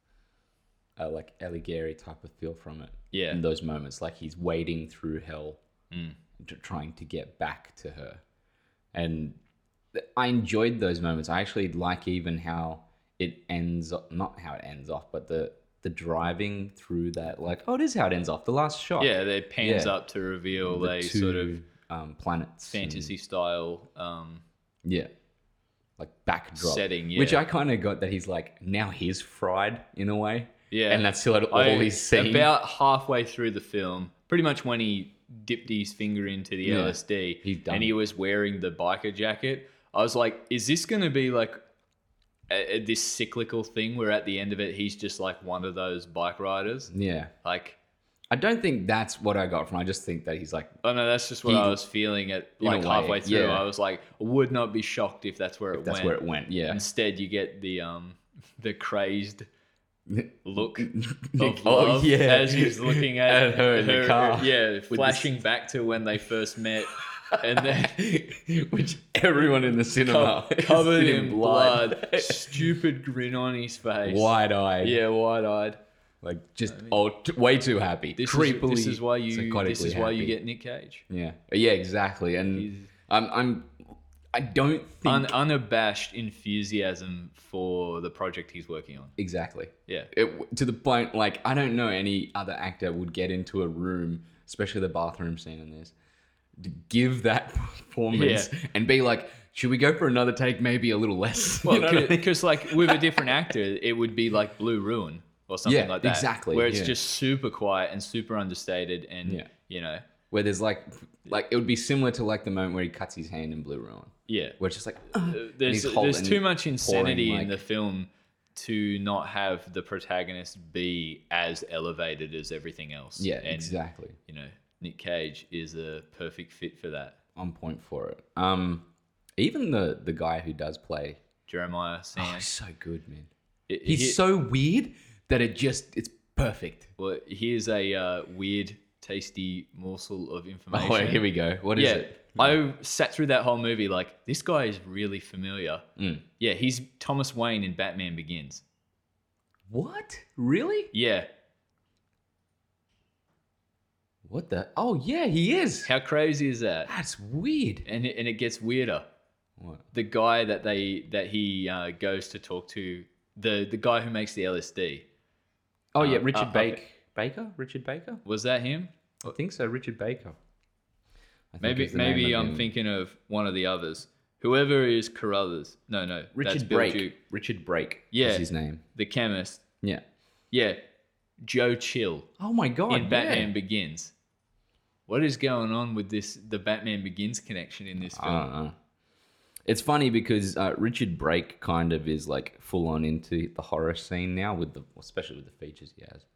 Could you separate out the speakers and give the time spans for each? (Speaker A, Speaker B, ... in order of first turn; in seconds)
Speaker A: 1.0-5.6, 6.4-8.2, 8.9-9.4, 9.9-19.9, 20.6-23.1, 26.0-32.5, 36.6-37.9, 46.9-47.3, 48.3-50.7, 51.4-51.8, 52.6-53.6, 55.7-56.8, 60.1-65.3, 67.0-72.7, 74.0-75.0, 76.2-80.3, 81.1-83.7, 84.3-85.3, 89.2-95.9, 96.6-103.3, 105.7-107.0, 110.3-117.6, 123.2-124.2, 127.3-128.8, 129.4-131.2, 132.2-133.3, 133.8-136.9, 140.7-142.6, 146.0-146.2, 149.7-150.9, 154.2-155.9, 156.8-157.8, 159.6-159.8, 165.9-168.2, 169.2-170.4, 171.5-172.7, 176.3-178.8, 182.4-183.5, 188.0-188.7, 189.7-196.2
Speaker B: 3.1-3.4, 5.9-6.2, 19.0-21.6, 22.7-24.4, 26.6-27.4, 30.7-41.5, 42.5-46.9, 47.4-47.8, 50.8-59.5, 60.4-68.0, 70.0-75.8, 76.7-77.0, 78.2-81.0, 82.5-82.9, 85.0-89.1, 98.1-98.5, 101.6-110.0, 114.3-114.6, 115.1-127.2, 131.5-132.5, 133.7-134.2, 137.0-141.2, 141.8-145.8, 146.4-148.6, 150.9-151.3, 155.8-156.9, 157.8-159.0, 159.9-165.0, 166.0-166.8, 168.2-168.9, 171.6-177.2, 178.1-179.6, 180.5-180.8, 181.4-182.3, 182.9-184.1, 185.1-188.4